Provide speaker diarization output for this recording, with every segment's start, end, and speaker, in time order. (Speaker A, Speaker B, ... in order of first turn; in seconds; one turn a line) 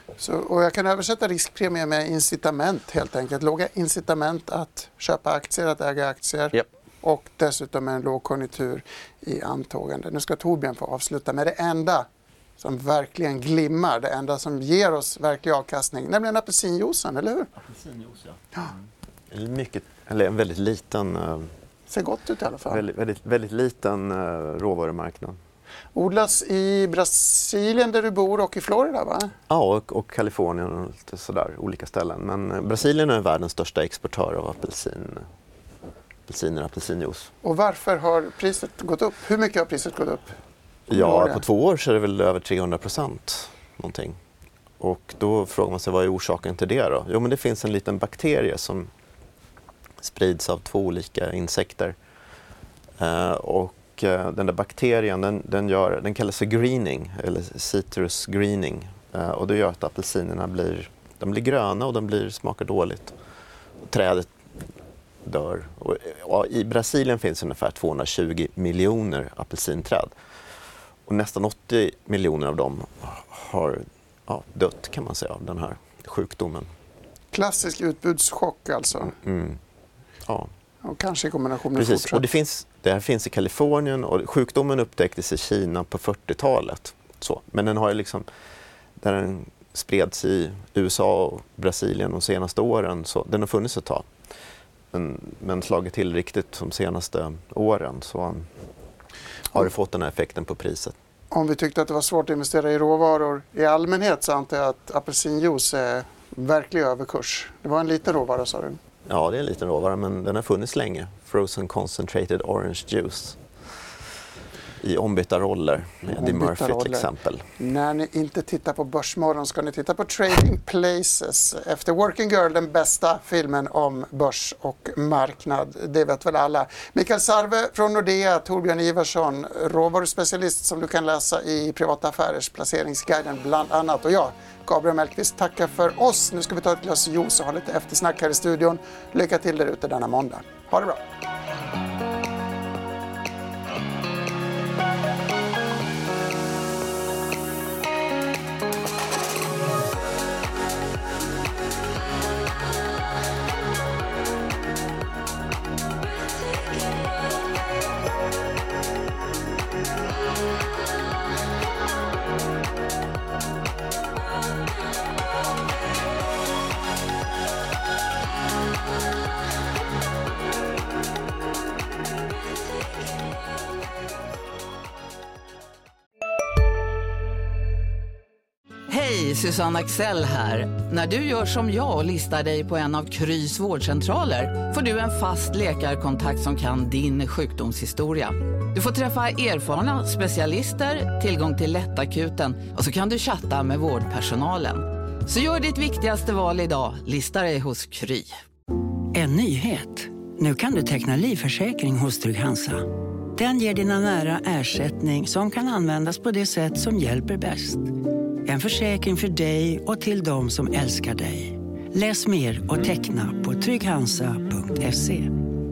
Speaker A: 0.2-12.1
Speaker A: 12.6-17.5
Speaker B: 17.6-18.4
Speaker B: 19.3-21.5
Speaker A: 21.9-22.8
Speaker B: 22.6-25.4
Speaker A: 25.9-29.3
Speaker B: 29.5-35.3
Speaker B: 36.3-37.3
Speaker A: 37.4-40.4
Speaker B: 40.9-44.2
Speaker A: 40.9-41.4
Speaker B: 44.8-48.9
Speaker B: 50.0-52.0
Speaker B: 53.0-63.1
Speaker B: 63.9-64.3
Speaker B: 65.2-70.1
Speaker B: 71.0-76.7
Speaker A: 77.3-79.1
Speaker B: 79.1-79.6
Speaker B: 80.2-80.5
Speaker A: 80.8-82.2
Speaker B: 81.7-88.2
Speaker B: 89.0-94.1
Speaker B: 94.9-98.5
Speaker B: 99.5-100.9
Speaker A: 101.3-108.8
Speaker B: 109.0-113.4
Speaker B: 114.8-117.4
Speaker A: 116.1-141.0
Speaker C: 178.9-198.3
Speaker D: 199.1-207.9
Speaker D: 208.4-215.3